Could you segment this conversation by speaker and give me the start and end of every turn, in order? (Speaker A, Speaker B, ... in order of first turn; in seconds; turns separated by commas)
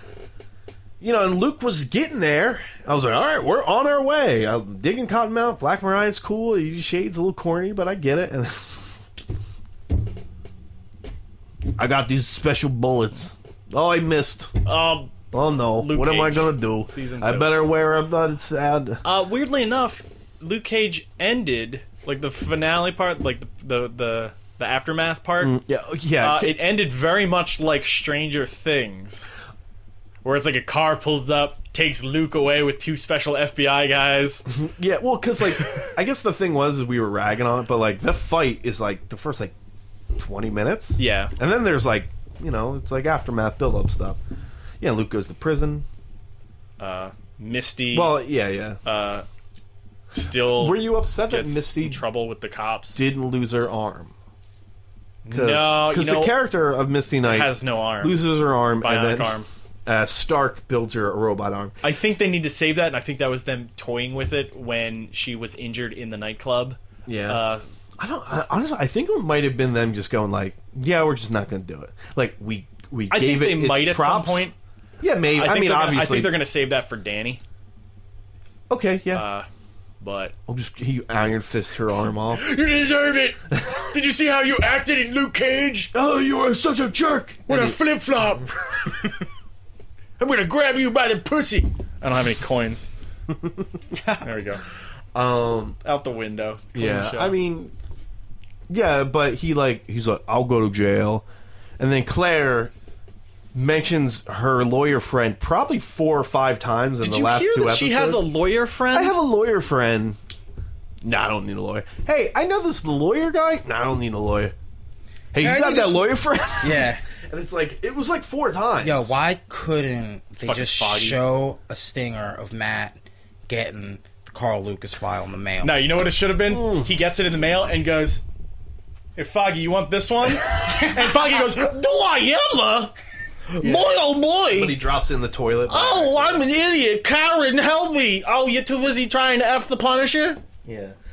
Speaker A: 1.0-8.9, Speaker A: 11.8-14.5, Speaker B: 14.7-17.5, Speaker A: 15.3-19.0, Speaker B: 19.0-25.5, Speaker A: 25.4-26.6, Speaker B: 26.2-29.3, Speaker B: 30.2-34.5, Speaker A: 34.5-39.5, Speaker A: 40.1-44.2, Speaker B: 41.0-41.3, Speaker A: 44.8-45.9, Speaker B: 46.8-48.2, Speaker A: 47.9-48.8, Speaker B: 48.9-49.3, Speaker B: 50.1-53.0, Speaker A: 50.5-52.0, Speaker A: 53.0-54.1, Speaker B: 55.2-56.4, Speaker A: 55.3-61.7, Speaker B: 57.2-58.2, Speaker B: 58.8-59.5, Speaker B: 61.8-67.6, Speaker A: 67.1-67.4, Speaker A: 68.0-76.4, Speaker B: 73.1-74.5, Speaker B: 75.3-77.4, Speaker A: 78.7-79.2, Speaker B: 79.1-79.5, Speaker B: 80.0-80.3, Speaker A: 80.5-82.4, Speaker B: 82.3-85.9, Speaker A: 85.9-87.8, Speaker B: 87.5-89.2, Speaker B: 90.2-92.9, Speaker A: 93.3-93.6, Speaker B: 94.2-94.6, Speaker A: 95.1-95.8, Speaker B: 95.8-97.3, Speaker A: 96.7-97.7, Speaker A: 98.7-101.2, Speaker A: 101.8-102.7, Speaker A: 103.5-108.2, Speaker B: 107.0-109.1, Speaker A: 108.9-110.2, Speaker A: 111.0-114.5, Speaker A: 115.3-119.1, Speaker C: 115.4-117.0, Speaker C: 118.8-125.8, Speaker B: 120.4-121.2, Speaker B: 125.6-128.2, Speaker A: 126.5-126.9, Speaker B: 129.2-132.9, Speaker B: 133.5-134.8, Speaker A: 133.6-133.9, Speaker A: 134.5-136.4, Speaker B: 135.7-140.4, Speaker A: 140.6-141.0